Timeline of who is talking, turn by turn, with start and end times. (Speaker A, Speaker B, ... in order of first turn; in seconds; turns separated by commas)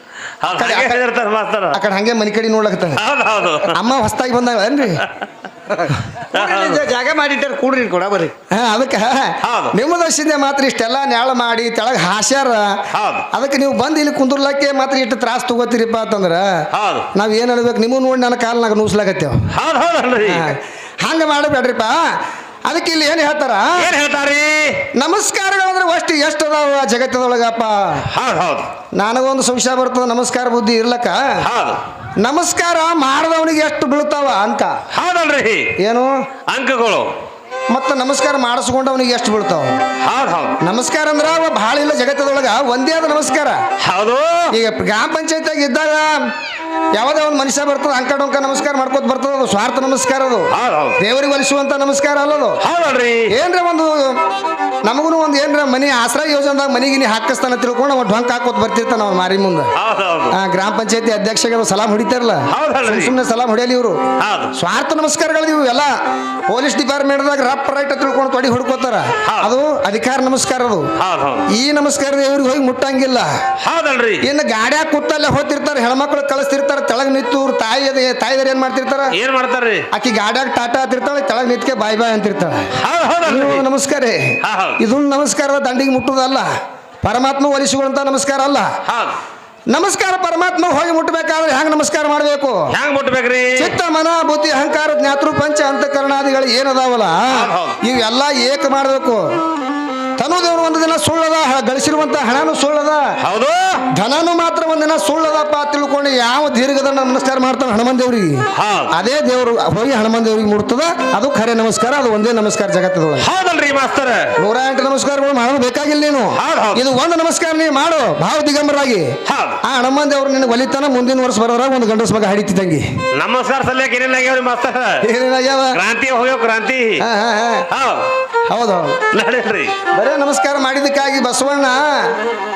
Speaker A: 0.4-1.8, Speaker B: 0.5-1.0, Speaker B: 1.7-3.0, Speaker A: 3.0-3.8, Speaker B: 3.7-5.0, Speaker C: 5.7-8.3, Speaker A: 6.3-6.9, Speaker B: 8.5-19.4, Speaker A: 9.4-9.8, Speaker A: 12.9-13.3, Speaker A: 16.7-17.1, Speaker A: 19.5-20.5, Speaker B: 20.2-23.9, Speaker A: 23.8-24.9, Speaker B: 24.9-28.1, Speaker A: 28.1-28.7, Speaker B: 28.9-31.4, Speaker A: 31.4-31.8, Speaker B: 32.2-34.8, Speaker A: 34.9-35.8, Speaker B: 35.8-36.2, Speaker A: 36.5-37.1, Speaker B: 37.7-39.8, Speaker A: 40.0-40.6, Speaker B: 40.6-43.6, Speaker A: 43.8-44.5, Speaker B: 44.5-46.3, Speaker B: 47.0-52.6, Speaker A: 50.5-51.0, Speaker A: 52.6-53.3, Speaker B: 53.3-54.2, Speaker B: 54.9-59.7, Speaker A: 59.8-60.4, Speaker B: 60.3-64.0, Speaker A: 62.5-63.1, Speaker A: 64.2-64.5, Speaker B: 64.5-65.9, Speaker B: 66.5-70.9, Speaker A: 69.2-69.5, Speaker A: 71.0-71.5, Speaker B: 71.5-73.3, Speaker A: 73.6-74.3, Speaker B: 74.2-79.2, Speaker A: 79.1-79.8, Speaker B: 79.9-82.7, Speaker A: 82.8-83.6, Speaker B: 83.3-86.5, Speaker A: 84.4-84.8, Speaker B: 87.0-88.7, Speaker A: 88.9-89.2, Speaker B: 89.7-92.7, Speaker A: 92.7-93.7, Speaker B: 93.6-99.2, Speaker A: 97.3-97.8, Speaker B: 100.2-103.2, Speaker A: 103.2-103.8, Speaker B: 103.9-113.3, Speaker A: 108.5-108.9, Speaker A: 113.2-114.3, Speaker B: 114.4-122.9, Speaker A: 116.4-116.9, Speaker A: 119.3-119.6, Speaker A: 123.2-125.0, Speaker B: 125.0-125.8, Speaker A: 125.7-127.0, Speaker B: 127.0-127.7, Speaker A: 127.7-128.1, Speaker B: 128.5-129.0, Speaker A: 129.1-129.8, Speaker B: 129.9-132.2